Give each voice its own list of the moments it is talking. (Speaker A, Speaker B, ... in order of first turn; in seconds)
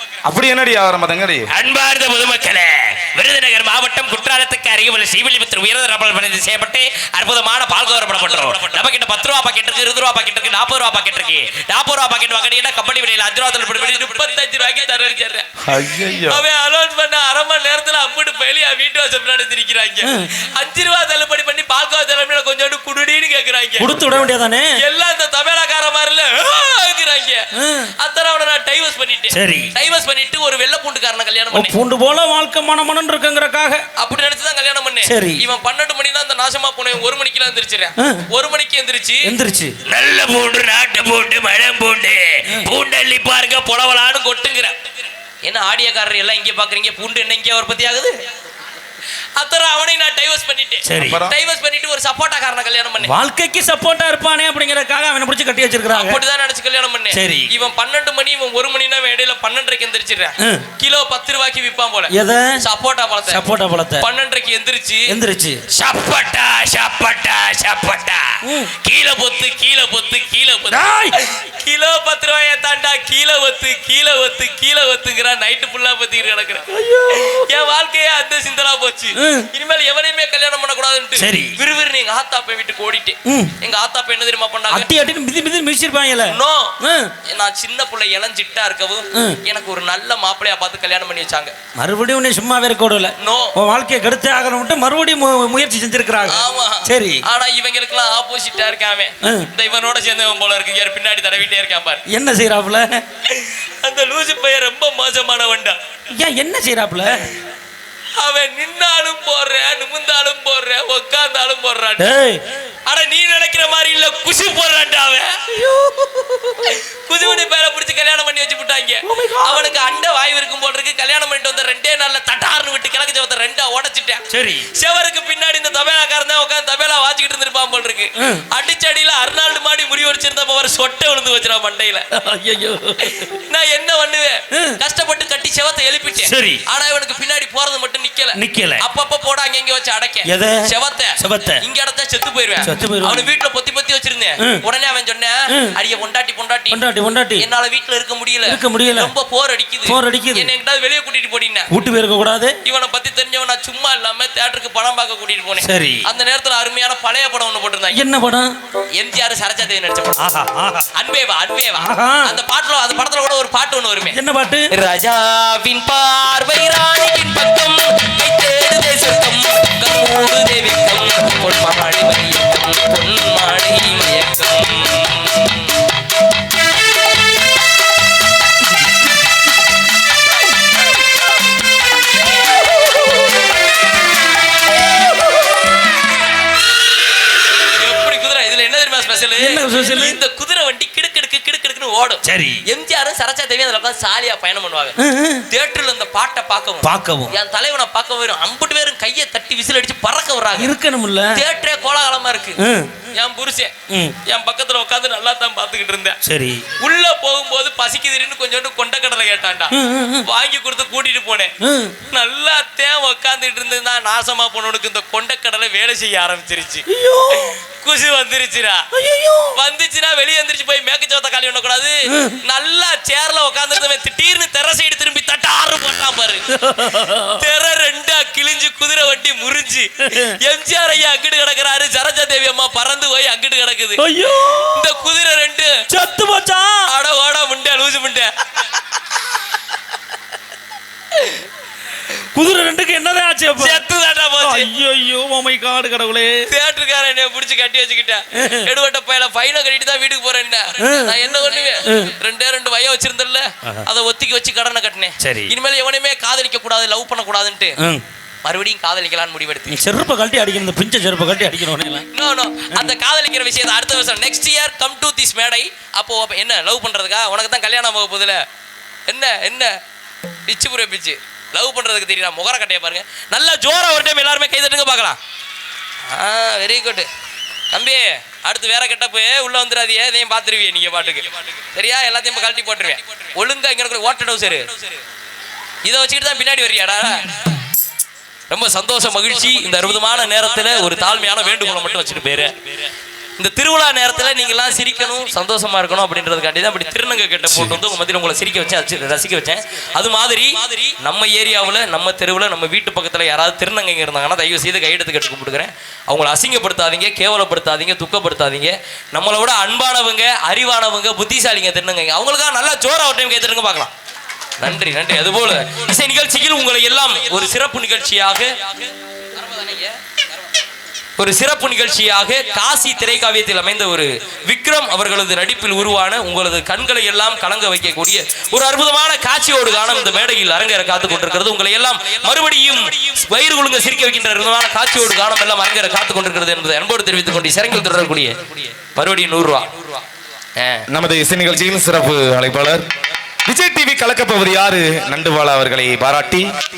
Speaker A: 0.3-1.5, 15.6-16.4, 51.0-51.3, 340.9-342.8, 343.5-346.5
Speaker B: 1.5-15.4, 16.0-24.2, 24.8-27.4, 28.0-31.7, 34.0-39.3, 39.9-44.8, 45.4-48.1, 49.4-53.1, 55.9-63.4, 64.0-65.1, 65.7-84.9, 86.2-86.7, 87.3-91.5, 93.2-93.5, 96.2-102.0, 103.2-105.8, 108.2-112.1, 112.8-115.3, 116.6-132.1, 133.0-146.8, 147.4-151.7, 152.6-158.0, 158.9-160.2, 160.9-164.2, 164.7-175.8, 187.8-194.9, 195.5-200.7, 201.3-202.6, 203.1-203.7, 204.2-206.2, 206.8-211.5, 212.1-218.8, 219.5-226.5, 227.3-234.0, 234.7-235.8, 236.8-238.3, 243.6-244.7, 246.5-257.8, 258.4-259.8, 262.1-268.4, 269.1-269.7, 270.4-275.2, 276.1-277.1, 277.7-285.0, 285.8-287.6, 288.5-292.6, 293.4-313.9, 314.6-319.9, 321.2-340.0, 340.6-340.8
Speaker C: 20.0-20.3, 23.8-24.7, 27.6-27.9, 29.3-29.7, 31.5-33.8, 35.0-35.4, 39.2-39.7, 50.8-51.2, 53.0-56.2, 57.1-57.5, 60.4-60.6, 62.1-62.6, 63.3-64.0, 65.1-65.6, 68.4-68.7, 70.7-71.2, 76.7-77.6, 79.2-79.5, 81.2-81.5, 83.2-83.5, 84.7-87.1, 91.8-97.2, 102.1-103.0, 106.2-107.3, 112.0-112.4, 115.5-116.7, 119.0-119.9, 124.3-124.7, 132.1-133.3, 136.2-136.6, 138.3-138.8, 140.2-141.6, 142.6-143.3, 146.7-147.4, 148.4-149.1, 149.8-150.5, 151.7-152.5, 155.6-156.0, 157.9-158.5, 160.2-160.8, 161.8-162.3, 164.1-164.7, 189.4-190.2, 192.2-192.6, 195.0-195.4, 196.8-197.3, 200.6-201.4, 202.6-202.9, 203.9-204.2, 206.2-206.6, 209.7-210.2, 211.6-211.9, 216.9-217.6, 218.9-219.5, 222.1-222.4, 226.5-227.4, 234.0-234.9, 235.9-236.9, 242.1-243.8, 244.4-246.4, 248.4-248.7, 250.8-252.1, 255.2-255.5, 259.7-262.1, 297.5-297.8